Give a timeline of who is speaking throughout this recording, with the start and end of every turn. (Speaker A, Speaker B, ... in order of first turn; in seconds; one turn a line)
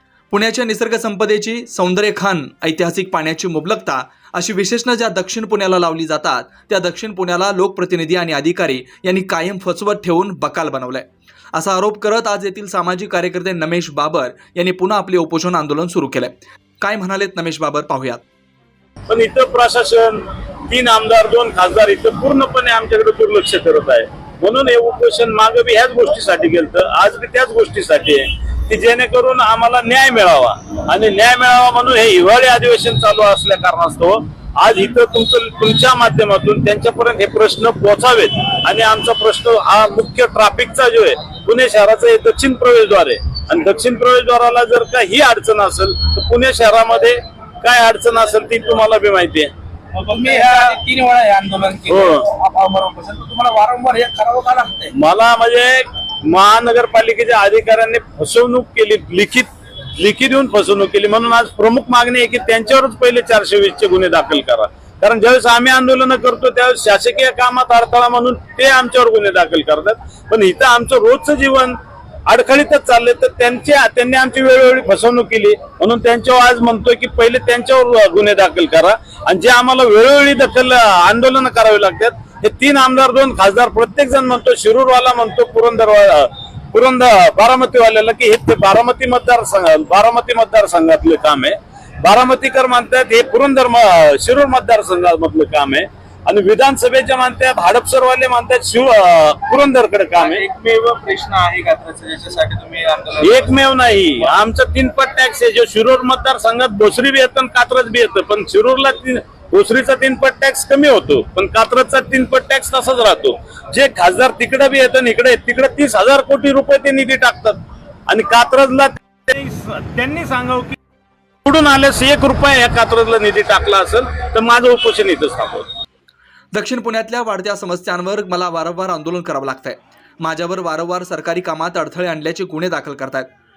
Speaker A: 0.3-18.2
Speaker B: 19.1-49.5
Speaker C: 49.9-54.9
Speaker B: 51.9-52.3
Speaker B: 54.9-100.5
Speaker C: 100.2-104.3
Speaker B: 103.2-120.8
Speaker B: 121.5-125.7
Speaker A: 126.5-133.3